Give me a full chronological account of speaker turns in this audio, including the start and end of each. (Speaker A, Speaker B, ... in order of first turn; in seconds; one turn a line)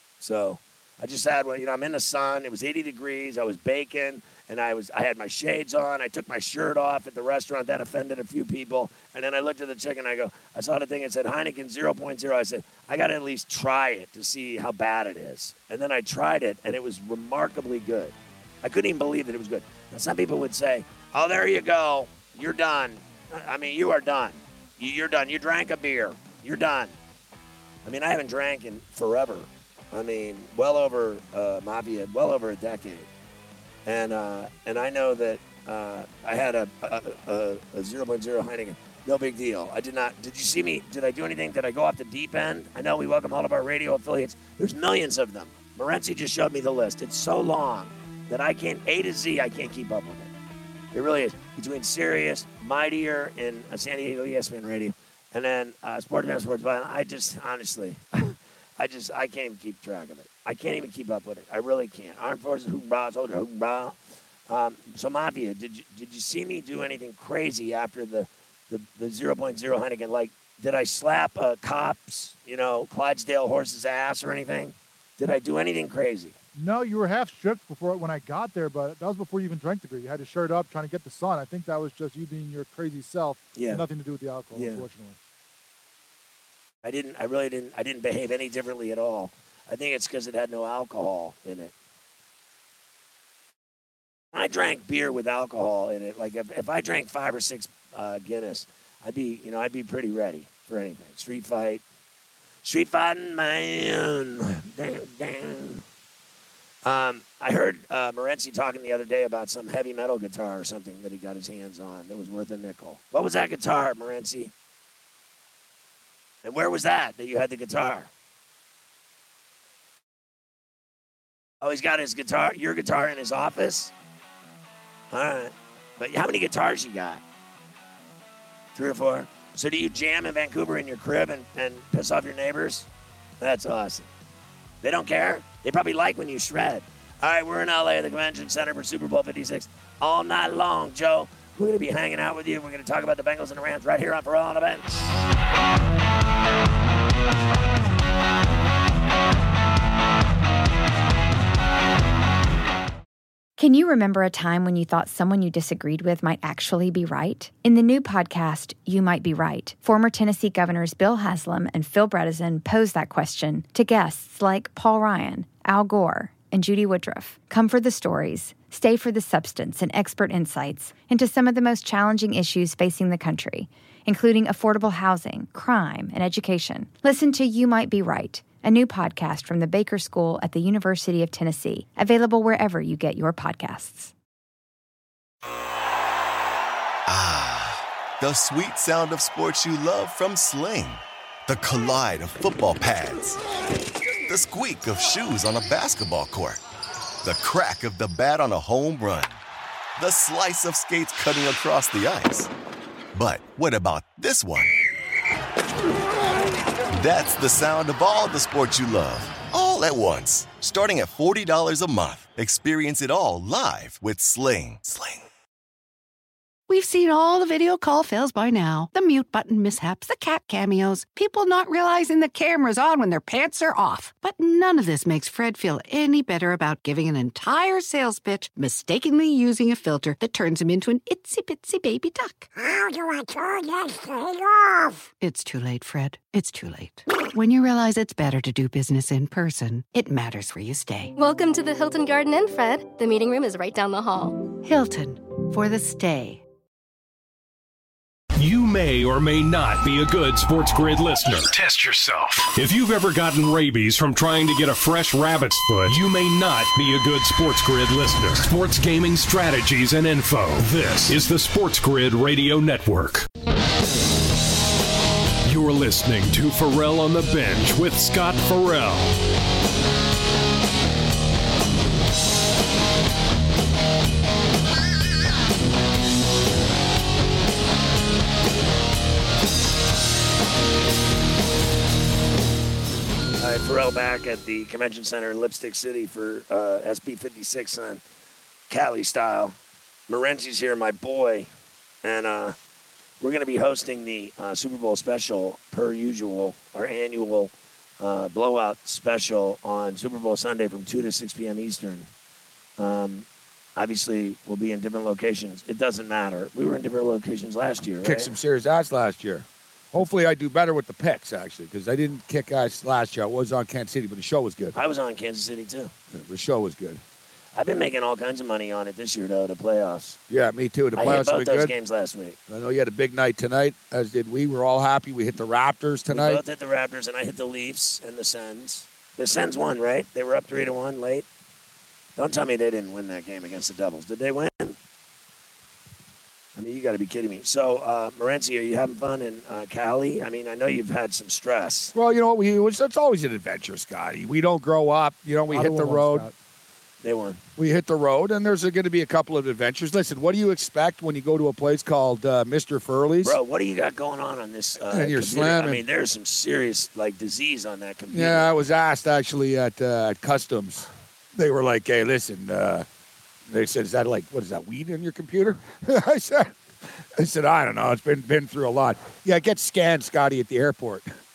Speaker A: 0.2-27.0
Speaker A: 27.9-33.1
Speaker A: 33.9-50.3
Speaker A: 50.9-64.0
Speaker A: 64.5-76.3
Speaker B: 76.6-85.2
Speaker A: 83.6-83.8
Speaker A: 84.5-84.8
Speaker A: 86.8-91.7
Speaker A: 94.3-101.8
Speaker A: 102.6-105.8
Speaker A: 106.8-114.5
Speaker A: 116.4-118.1
Speaker A: 121.6-123.9
Speaker A: 125.1-127.2
Speaker A: 128.8-132.9
Speaker A: 133.4-134.1
Speaker A: 134.8-145.2
Speaker C: 153.6-184.1
Speaker D: 187.1-193.4
Speaker D: 194.3-196.6
Speaker D: 197.2-199.4
Speaker D: 200.0-202.5
Speaker D: 203.1-204.8
Speaker D: 206.9-215.2
Speaker E: 216.7-241.1
Speaker F: 241.2-244.4
Speaker E: 244.6-246.4
Speaker G: 248.4-263.3
Speaker G: 265.4-269.1
Speaker A: 283.4-288.0
Speaker A: 288.7-289.6
Speaker A: 290.1-291.5
Speaker A: 292.0-292.6
Speaker A: 293.2-302.1
Speaker A: 302.8-308.3
Speaker H: 308.0-314.8
Speaker A: 314.8-315.9
Speaker H: 316.1-317.0
Speaker A: 317.6-320.2
Speaker H: 320.3-321.7
Speaker A: 321.0-322.4
Speaker H: 322.5-326.4
Speaker A: 326.1-331.3
Speaker A: 332.2-334.8
Speaker A: 336.6-341.9
Speaker H: 341.9-346.3
Speaker B: 345.5-346.3
Speaker A: 347.0-347.4
Speaker H: 347.6-353.4
Speaker A: 353.2-358.5
Speaker H: 354.9-355.8
Speaker H: 358.1-362.9
Speaker H: 363.5-366.5
Speaker H: 367.2-371.1